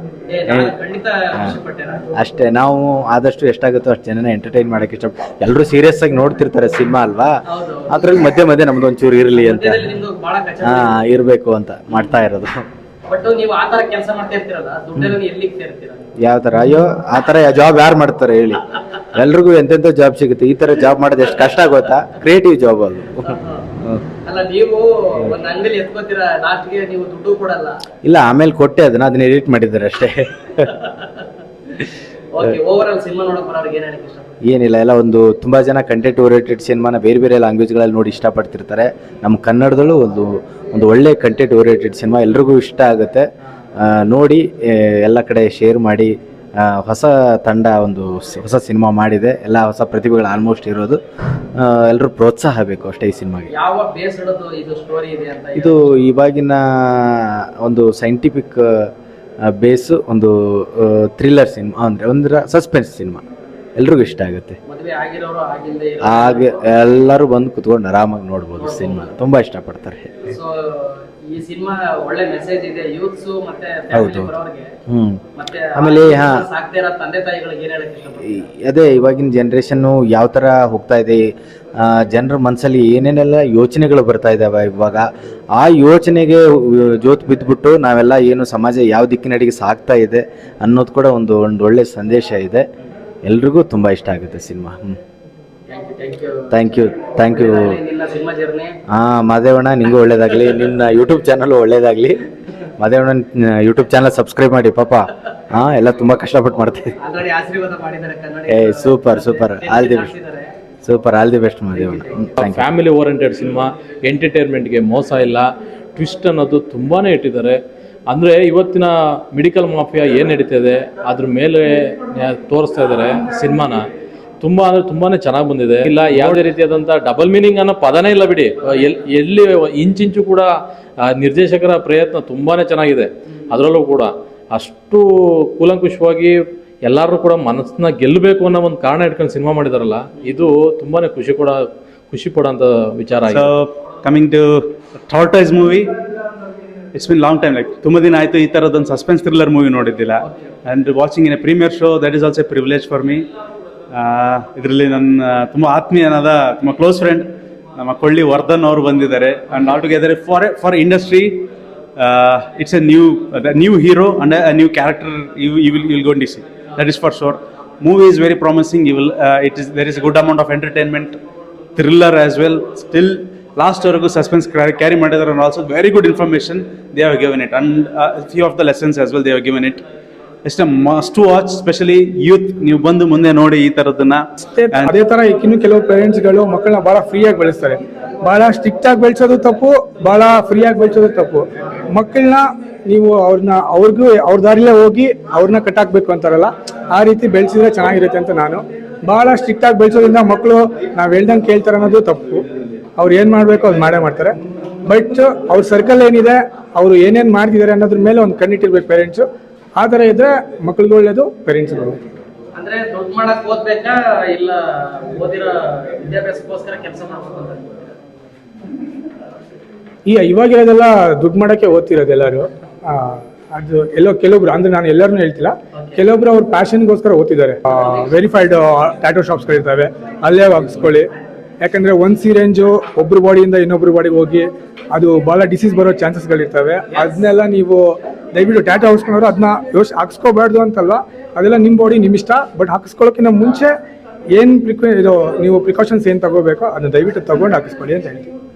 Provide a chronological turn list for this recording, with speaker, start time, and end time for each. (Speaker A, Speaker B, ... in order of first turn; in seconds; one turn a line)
Speaker A: 0.3-2.1
Speaker B: 0.5-0.7
Speaker B: 2.1-9.9
Speaker A: 7.5-8.2
Speaker A: 9.4-10.9
Speaker B: 10.6-12.6
Speaker A: 13.1-16.1
Speaker B: 16.2-24.0
Speaker A: 23.3-23.6
Speaker A: 24.2-27.8
Speaker B: 28.0-30.7
Speaker A: 32.3-34.4
Speaker B: 34.4-43.2
Speaker B: 43.8-51.0
Speaker B: 51.5-53.5
Speaker A: 53.5-56.0
Speaker B: 55.5-58.9
Speaker B: 59.4-63.2
Speaker B: 63.8-64.6
Speaker A: 64.7-66.7
Speaker B: 66.0-70.3
Speaker A: 68.6-69.1
Speaker A: 70.3-74.7
Speaker B: 73.9-74.3
Speaker B: 74.9-75.2
Speaker A: 75.3-78.5
Speaker B: 75.7-76.5
Speaker B: 78.4-92.7
Speaker B: 93.2-95.0
Speaker A: 95.7-98.8
Speaker B: 96.5-97.8
Speaker B: 98.9-102.2
Speaker B: 102.8-106.9
Speaker A: 107.0-110.5
Speaker B: 108.5-110.1
Speaker B: 110.8-112.7
Speaker A: 111.8-112.3
Speaker C: 112.4-117.6
Speaker C: 118.1-123.8
Speaker C: 124.4-130.5
Speaker C: 131.0-141.6
Speaker C: 142.1-143.5
Speaker D: 143.3-145.9
Speaker D: 146.9-153.3
Speaker D: 153.9-171.2
Speaker D: 171.8-179.8
Speaker D: 180.4-184.9
Speaker E: 184.5-202.4
Speaker E: 203.0-209.2
Speaker E: 209.8-212.0
Speaker A: 212.6-217.9
Speaker E: 220.1-231.1
Speaker A: 225.8-226.0
Speaker E: 231.6-243.7
Speaker E: 244.3-248.3